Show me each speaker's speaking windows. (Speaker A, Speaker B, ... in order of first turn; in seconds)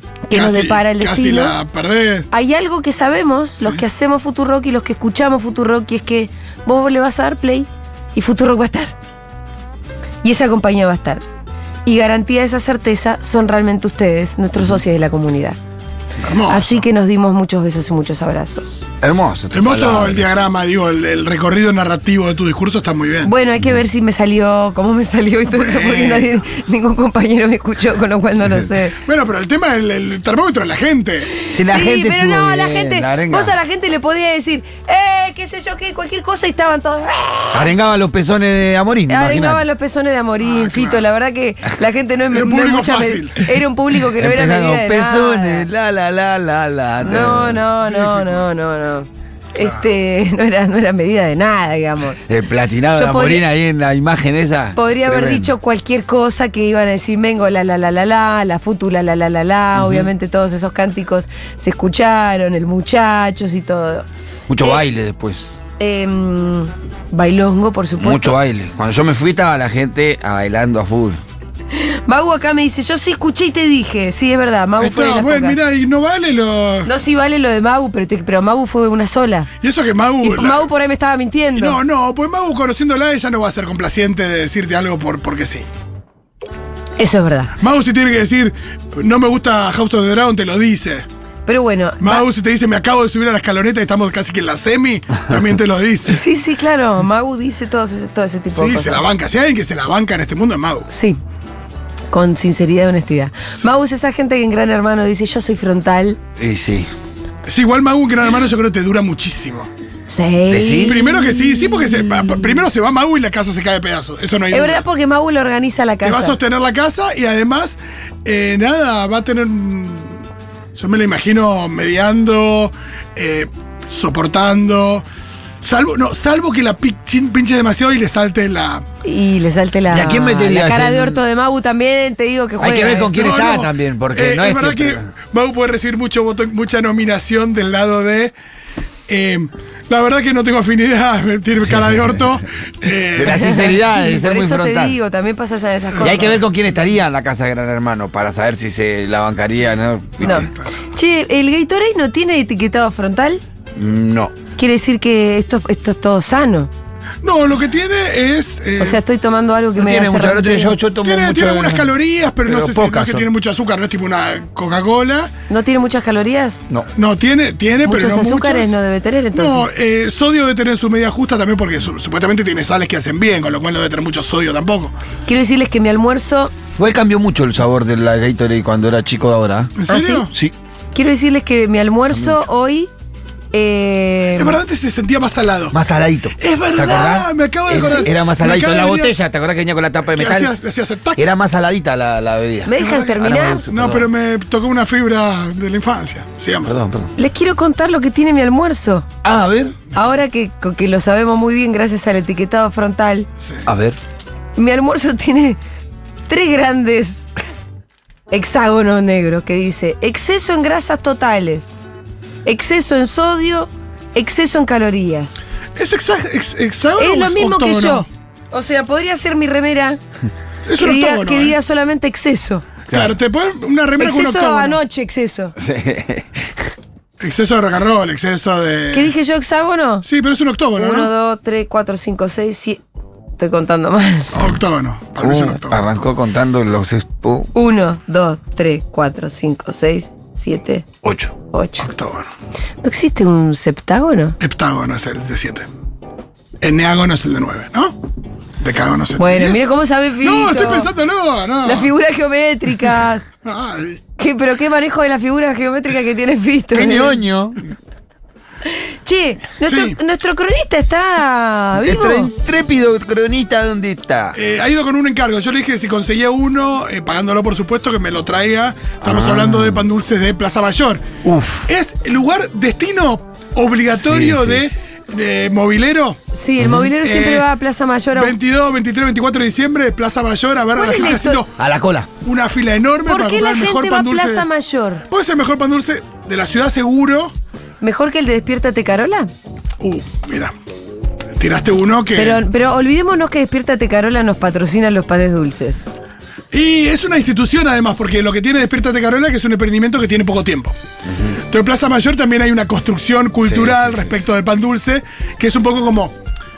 Speaker A: 0.3-1.5, 2.3-8.9, 10.2-11.2, 11.8-15.6, 16.5-18.8, 23.2-29.0, 31.5-37.7, 39.1-45.7, 47.0-52.2, 52.9-53.4, 54.8-64.1, 65.8-68.4, 71.7-75.6, 76.8-79.5, 80.2-81.8, 87.0-87.5, 91.5-92.2, 96.1-99.1, 100.9-101.2, 102.1-106.2, 110.1-112.6, 114.5-116.4, 129.0-133.2, 143.2-146.4, 150.2-153.4, 154.6-156.7, 158.8-160.8, 165.5-166.6, 167.8-169.7, 175.2-176.5, 179.9-180.3, 180.9-182.9, 183.5-184.6, 192.7-193.7, 197.2-199.1, 199.9-203.3, 204.6-205.6, 206.3-207.3, 208.3-211.8, 212.4-215.5, 217.0-220.0, 220.8-222.6, 224.0-225.6, 228.9-230.1, 230.7-232.8, 233.4-234.3, 237.6-240.8, 241.5-241.9, 242.8-244.4, 249.2-250.9, 251.6-253.2, 254.2-257.2, 259.0-262.3, 276.3-278.3, 280.7-281.4, 283.1-285.0, 287.8-289.3, 292.1-295.9
Speaker B: 0.3-2.3, 16.2-16.9, 19.5-23.3, 25.5-26.3, 29.0-31.3, 40.4-41.0, 42.3-43.5, 47.1-48.4, 49.6-49.8, 74.8-76.9, 79.6-80.7, 81.5-85.7, 87.6-91.1, 92.0-96.2, 98.5-100.9, 107.5-109.7, 110.8-114.8, 116.0-120.2, 120.8-125.0, 125.6-128.8, 133.1-138.3, 139.1-143.6, 150.2-150.7, 157.2-159.0, 161.0-165.3, 166.9-168.7, 169.3-174.9, 179.8-180.3, 184.3-185.8, 186.4-189.1, 190.1-191.2, 192.8-196.8, 203.4-203.7, 215.8-218.1, 220.7-221.6, 222.9-224.8, 227.2-229.1, 230.0-231.1, 234.3-235.8, 241.9-242.3, 244.4-245.7, 246.6-248.0, 248.6-251.9, 253.4-254.0, 259.7-260.0, 264.3-271.0, 271.7-276.2, 276.9-277.5, 278.1-281.5, 282.2-284.4, 285.1-287.3, 289.8-290.5, 291.3-292.4, 296.5-300.8, 301.5-306.1
Speaker C: 19.0-20.4, 31.5-33.5, 37.5-39.6, 44.2-47.6, 52.3-55.5, 59.7-60.1, 64.5-65.5, 68.0-71.2, 106.4-106.9, 110.5-111.0, 129.9-131.2, 132.6-135.1, 141.8-142.2, 143.2-145.0, 146.0-150.5, 153.8-154.3, 159.8-161.9, 162.4-163.3, 176.8-179.7, 182.1-182.4, 185.7-190.5, 191.2-194.1, 196.6-197.1, 199.2-199.7, 203.7-204.0, 222.9-223.1, 225.6-226.5, 235.2-237.5, 241.0-241.3, 256.7-257.6, 261.8-264.4, 269.0-269.8, 271.2-271.7, 273.9-274.7, 276.6-276.9, 281.6-282.1, 301.1-301.4, 303.4-304.1